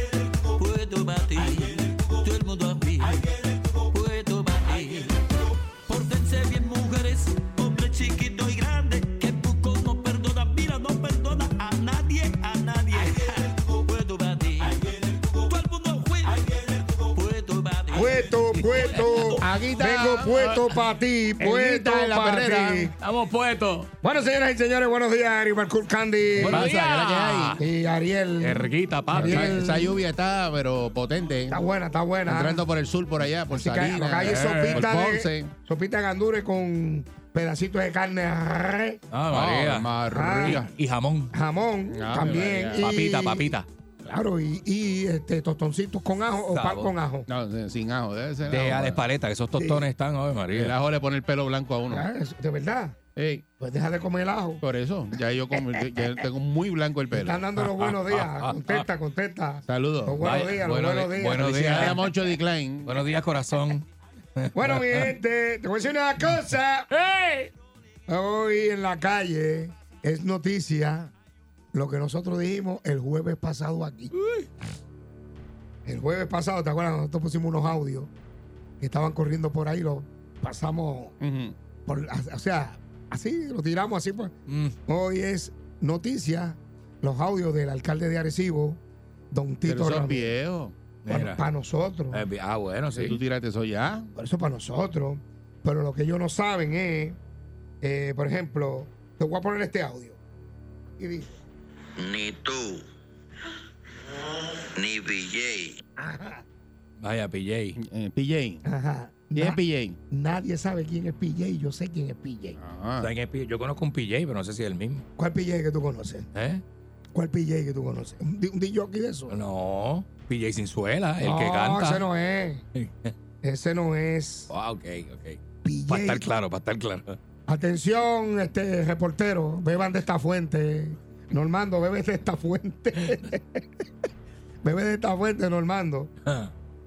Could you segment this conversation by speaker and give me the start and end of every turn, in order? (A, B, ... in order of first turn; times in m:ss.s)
0:00.5-0:03.3 A
0:03.9-0:05.1 A
0:05.9-0:19.2 A
0:17.9-0:22.9 B
0:18.1-0:19.4 C
0:19.3-0:20.6 D
0:20.3-0:20.7 C
0:21.4-0:22.9 D
0:23.0-0:23.9 C
0:24.0-0:26.7 B
0:26.3-0:27.6 D
0:26.4-0:27.6 C
0:27.6-0:30.0 B
0:28.4-0:29.6 C
0:29.1-0:31.6 D
0:31.5-0:32.6 B
0:32.3-0:35.5 D
0:33.5-0:39.0 B
0:34.2-0:34.9 C
0:39.1-0:39.9 C
0:39.3-0:40.7 D
0:40.1-0:40.6 B
0:40.5-0:41.3 C
0:41.3-0:43.5 B
0:41.9-0:42.9 D
0:42.7-0:43.7 C
0:44.0-0:47.3 B
0:46.5-0:46.9 C
0:47.3-0:49.0 D
0:48.5-0:50.7 C
0:49.6-0:49.9 B
0:50.5-0:52.0 D
0:51.9-0:53.0 B
0:53.2-0:53.4 D
0:53.6-0:54.6 B
0:54.6-0:57.4 D
0:57.1-1:02.0 B
0:57.6-0:58.8 C
0:59.6-1:00.2 D
1:00.2-1:02.0 C
1:01.4-1:03.0 D
1:02.8-1:03.8 C
1:04.4-1:05.1 C
1:04.5-1:06.9 B
1:06.9-1:07.5 C
1:08.1-1:11.1 B
1:11.7-1:14.1 B
1:14.2-1:14.5 C
1:15.8-1:18.1 B
1:18.8-1:21.1 B
1:21.2-1:21.6 D
1:21.8-1:24.3 B
1:24.5-1:24.8 C
1:24.9-1:28.8 B
1:29.3-1:30.3 B
1:29.6-1:30.8 D
1:31.0-1:31.4 C
1:31.1-1:32.2 B
1:32.1-1:33.2 C
1:32.9-1:34.1 D
1:34.2-1:37.2 B
1:37.8-1:40.2 B
1:41.0-1:41.3 B
1:42.0-1:42.8 E
1:44.8-1:45.8 E
1:46.0-1:46.4 B
1:47.0-1:47.8 C
1:47.8-1:48.6 D
1:48.6-1:52.6 B
1:49.3-1:50.0 D
1:52.6-1:53.1 D
1:53.0-1:55.1 C
1:55.2-1:56.3 B
1:56.3-1:56.6 C
1:57.1-1:59.4 B
1:59.3-2:02.0 C
2:01.2-2:02.6 B
2:02.8-2:03.1 C
2:03.4-2:04.5 B
2:04.5-2:07.2 C
2:05.6-2:06.3 B
2:07.5-2:13.6 B
2:14.6-2:16.1 B
2:16.2-2:16.5 C